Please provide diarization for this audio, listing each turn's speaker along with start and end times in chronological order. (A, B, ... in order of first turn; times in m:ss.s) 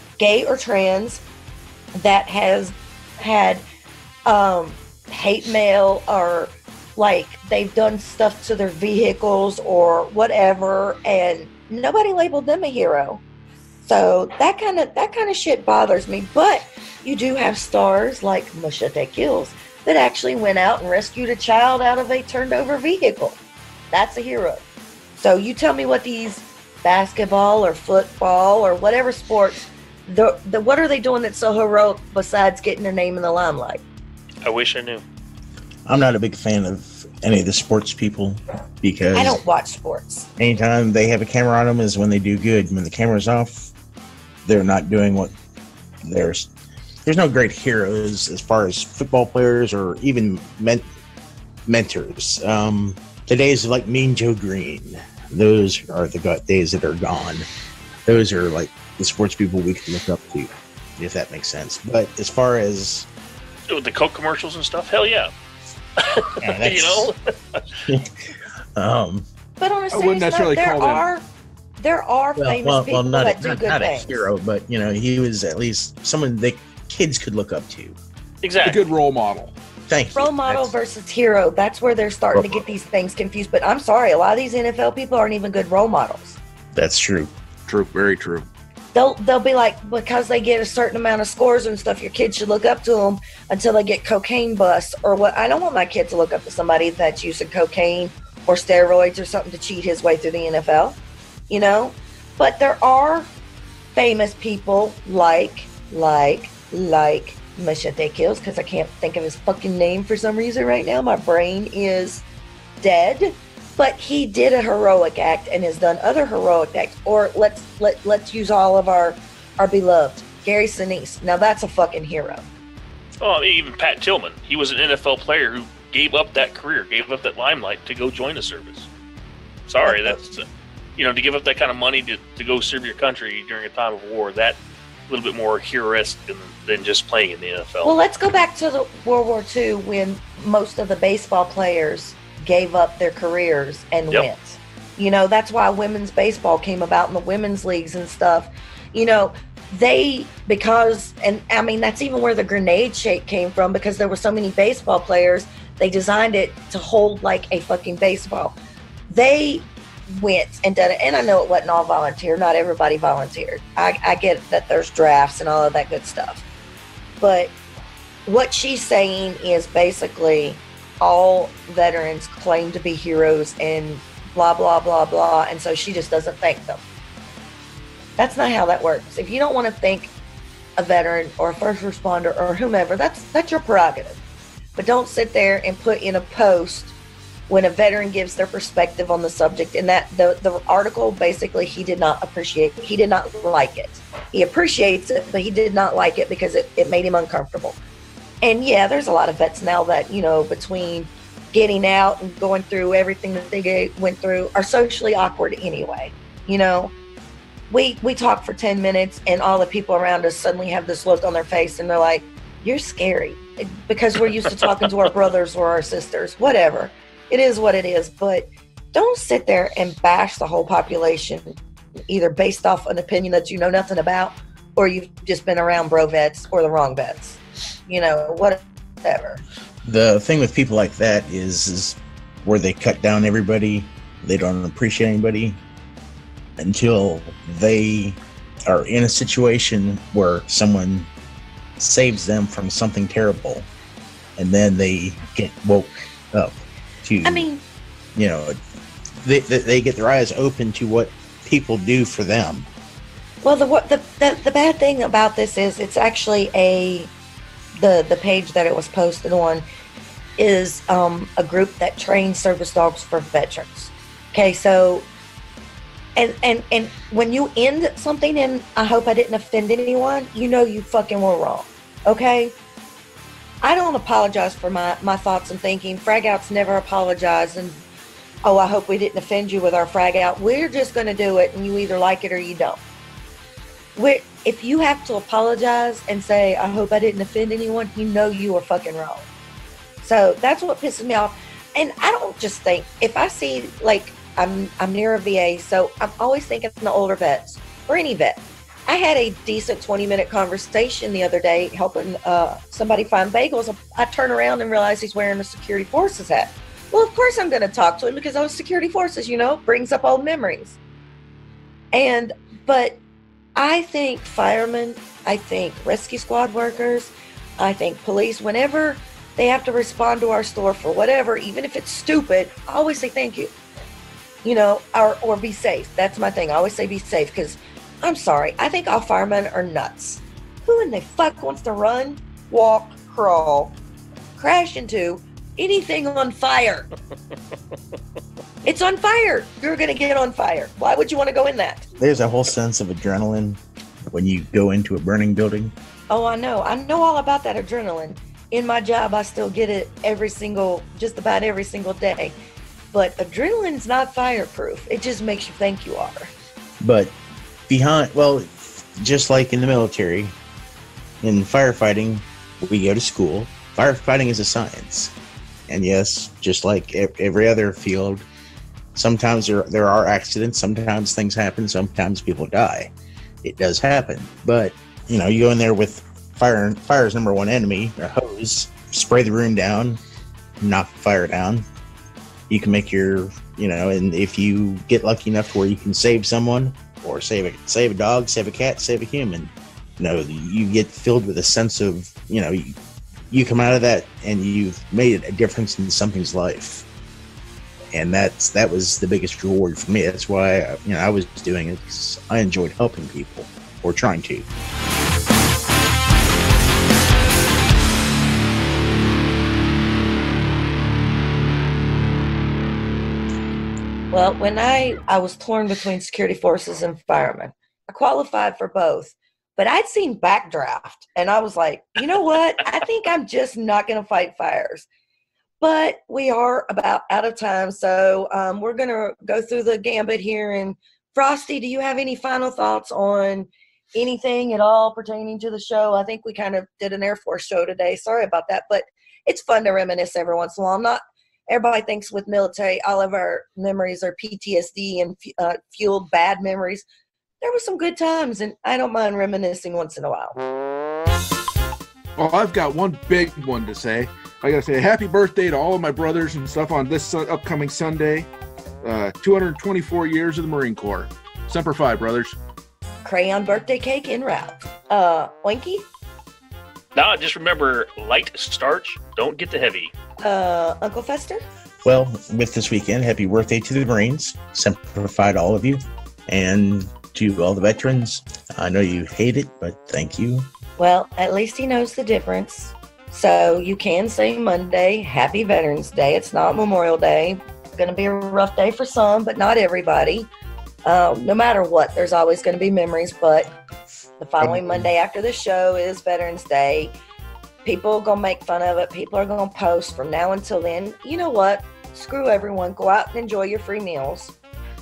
0:00.2-0:01.2 A
0:01.9-0:03.6 A
0:04.2-0:13.2 A
0:13.8-0:23.4 A
0:23.9-0:24.6 A
0:25.2-0:33.8 A
0:34.4-0:35.0 B
0:35.8-0:39.4 C
0:39.1-0:40.3 A
0:40.4-0:43.7 C
0:44.4-0:45.3 C
0:46.0-0:46.5 C
0:47.0-0:50.8 C
0:51.6-0:57.4 C
0:58.0-1:03.1 C
1:03.7-1:05.3 B
1:06.0-1:07.6 B
1:06.4-1:07.1 C
1:07.9-1:08.1 C
1:08.7-1:09.2 C
1:09.6-1:11.2 A
1:09.9-1:11.0 D
1:11.8-1:14.3 A
1:12.4-1:18.0 C
1:18.4-1:18.8 B
1:18.6-1:19.5 D
1:19.9-1:20.7 C
1:20.1-1:26.4 A
1:22.3-1:22.7 C
1:26.7-1:27.3 C
1:27.7-1:28.5 D
1:28.9-1:41.0 A
1:41.5-1:43.3 A
1:43.9-1:52.2 A
1:52.8-2:02.4 A
2:03.2-2:08.9 B
2:09.7-2:10.4 B
2:09.8-2:10.2 A
2:11.0-2:17.9 B
2:17.8-2:38.6 A
2:39.1-2:46.4 A
2:47.2-2:47.5 A
2:48.2-2:56.8 A
2:58.2-3:00.1 A
3:00.8-3:04.2 A
3:04.8-3:06.9 A
3:07.5-3:17.8 A
3:18.4-3:26.9 A
3:27.7-3:41.5 A
3:42.1-3:49.4 A
3:49.8-3:55.6 C
3:56.6-4:01.1 C
4:01.8-4:03.7 C
4:04.4-4:07.5 C
4:07.2-4:07.6 A
4:08.1-4:08.6 C
4:09.2-4:12.7 C
4:13.4-4:17.1 A
4:17.8-4:19.6 A
4:20.4-4:25.1 A
4:26.2-4:32.5 A
4:33.6-4:37.8 A
4:38.4-4:42.8 A
4:44.0-4:49.3 A
4:50.0-5:10.8 A
5:11.9-5:13.0 A
5:13.6-5:23.5 A
5:24.4-5:33.7 A
5:34.4-5:36.9 A
5:38.6-5:41.9 A
5:42.0-5:45.7 C
5:46.1-5:52.4 A
5:52.9-5:56.3 A
5:56.8-5:57.2 C
5:57.7-6:00.3 C
6:01.2-6:05.1 C
6:05.7-6:08.2 C
6:08.9-6:12.9 C
6:13.4-6:20.0 C
6:20.6-6:21.6 C
6:22.5-6:32.7 C
6:33.3-6:36.9 C
6:37.9-6:44.4 C
6:54.1-7:04.9 A
7:05.6-7:26.8 A
7:27.4-7:30.4 A
7:32.2-7:38.3 D
7:38.8-7:42.4 D
7:43.0-7:45.8 A
7:46.9-7:49.9 B
7:50.2-7:51.4 A
7:51.8-8:00.5 C
8:00.8-8:10.3 A
8:10.8-8:13.5 A
8:14.2-8:16.9 A
8:14.4-8:14.9 C
8:17.6-8:24.3 A